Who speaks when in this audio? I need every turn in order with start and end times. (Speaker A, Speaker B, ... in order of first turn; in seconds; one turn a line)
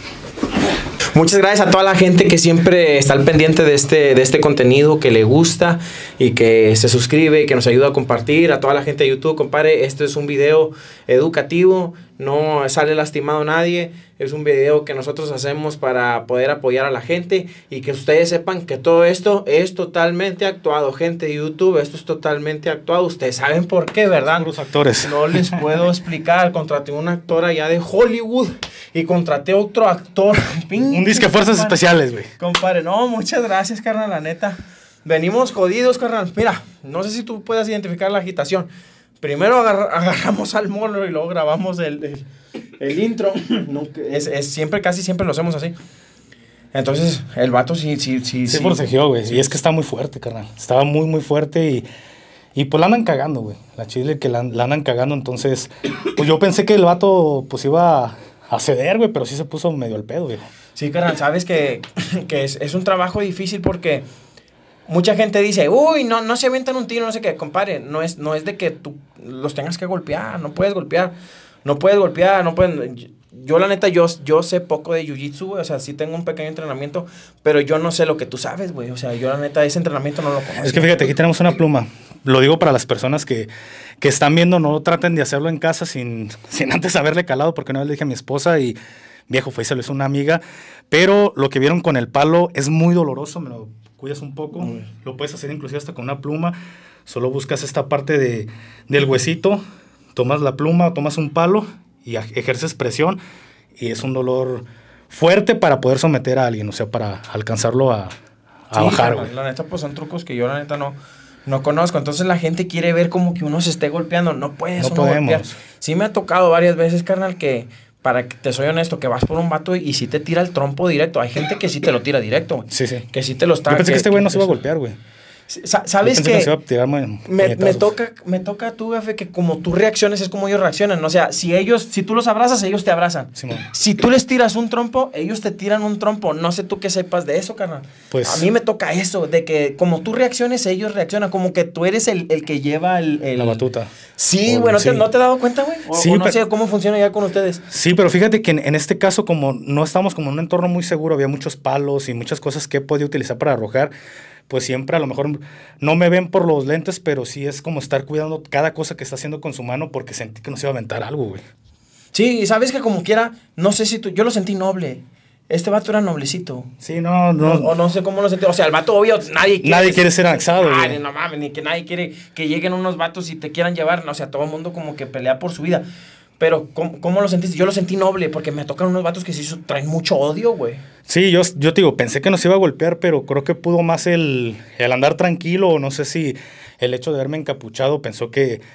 Speaker A: 1.0-31.8
Speaker B: 24.3-25.6
Speaker B: 30.9-32.3
Speaker A: 32.4-38.7
Speaker A: 39.2-42.2
Speaker A: 42.8-45.8
Speaker A: 46.7-49.5
Speaker B: 48.5-51.9
Speaker B: 52.5-60.5
Speaker A: 60.8-64.0
Speaker A: 64.9-71.1
Speaker A: 71.7-81.1
Speaker B: 80.6-83.5
Speaker B: 84.0-88.8
Speaker B: 89.3-99.6
Speaker B: 100.2-103.2
Speaker B: 103.8-108.2
Speaker B: 108.7-109.3
Speaker A: 108.7-124.6
Speaker B: 114.8-115.5
Speaker B: 122.7-123.1
Speaker B: 123.7-125.0
Speaker A: 125.5-126.5
Speaker B: 126.0-127.9
Speaker A: 127.3-143.6
Speaker B: 133.4-133.7
Speaker B: 138.1-138.5
Speaker B: 143.4-143.9
Speaker A: 144.2-147.6
Speaker B: 144.5-145.1
Speaker B: 145.9-146.4
Speaker B: 147.7-153.9
Speaker B: 154.5-161.4
Speaker A: 162.1-166.7
Speaker B: 166.8-167.7
Speaker A: 167.4-175.8
Speaker B: 169.6-171.0
Speaker A: 176.4-180.8
Speaker B: 181.1-188.6